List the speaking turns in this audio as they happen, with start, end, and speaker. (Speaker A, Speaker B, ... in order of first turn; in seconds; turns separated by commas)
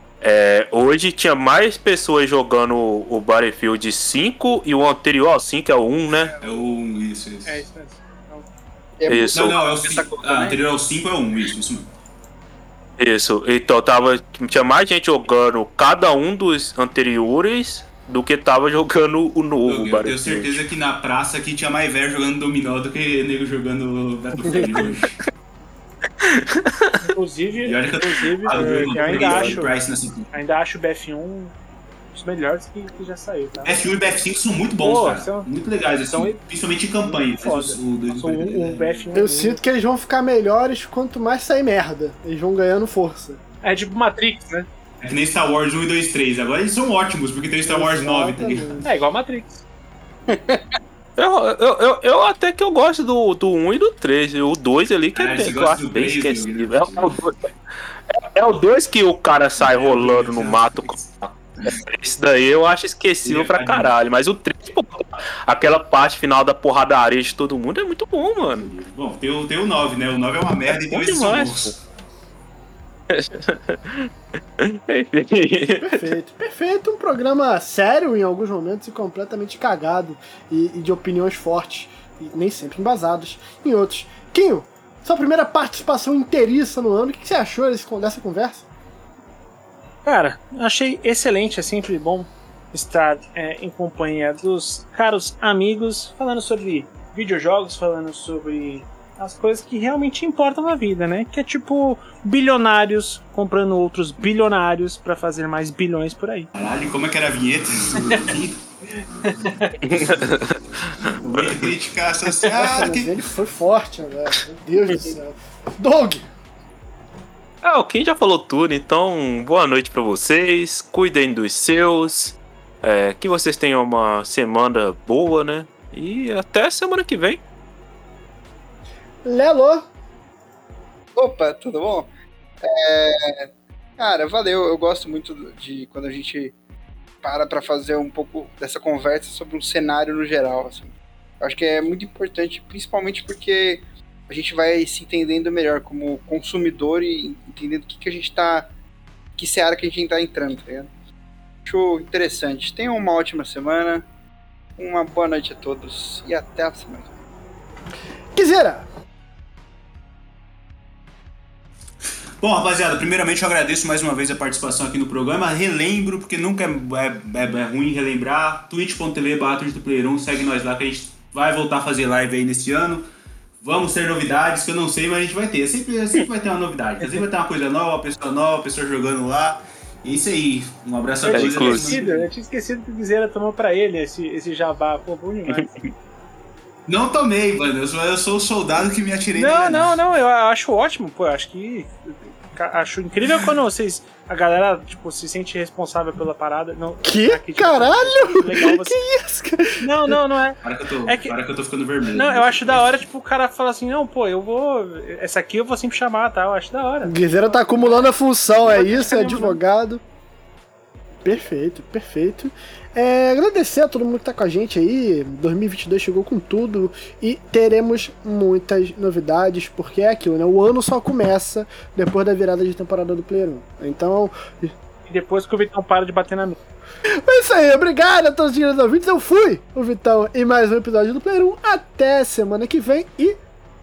Speaker A: 0.2-6.4, Speaker B: 6.4-7.6, Speaker C: 7.4-8.5, Speaker D: 9.0-10.6, Speaker A: 9.1-9.6, Speaker B: 9.3-11.9, Speaker A: 13.0-20.6, Speaker B: 19.6-25.2, Speaker A: 24.5-24.9, Speaker A: 26.2-27.0, Speaker C: 27.0-29.8, Speaker B: 27.6-30.3, Speaker A: 28.5-29.6, Speaker C: 30.3-31.6, Speaker C: 32.1-33.8, Speaker B: 33.6-39.2, Speaker C: 34.8-35.5, Speaker C: 36.1-36.4, Speaker C: 37.0-39.6, Speaker E: 39.1-43.4, Speaker C: 43.6-44.7, Speaker B: 45.0-48.9, Speaker E: 47.6-48.9, Speaker C: 48.8-49.6, Speaker A: 51.2-57.5, Speaker B: 55.1-57.2, Speaker A: 58.1-68.7, Speaker B: 59.6-61.8, Speaker B: 63.2-63.9, Speaker B: 68.4-71.8, Speaker A: 70.7-71.7, Speaker A: 73.1-76.1, Speaker E: 75.8-88.7, Speaker C: 90.0-106.5, Speaker B: 106.5-108.6, Speaker C: 109.2-109.8, Speaker A: 109.8-111.5, Speaker B: 111.0-113.3, Speaker E: 112.7-116.3, Speaker A: 117.6-127.4, Speaker E: 129.2-129.9, Speaker D: 131.2-132.1, Speaker D: 132.6-136.6, Speaker D: 137.2-148.7, Speaker D: 149.4-150.9, Speaker D: 151.7-154.1, Speaker D: 154.8-157.1, Speaker E: 158.3-158.9, Speaker B: 162.4-173.1, Speaker B: 173.6-182.3, Speaker C: 181.2-185.7, Speaker A: 181.3-182.0, Speaker B: 186.9-189.9, Speaker C: 189.4-199.0, Speaker E: 197.0-200.2, Speaker C: 199.8-201.4, Speaker B: 200.6-203.0, Speaker C: 202.1-209.6, Speaker E: 207.0-210.0, Speaker E: 211.2-224.7, Speaker C: 225.1-226.6, Speaker E: 227.2-233.4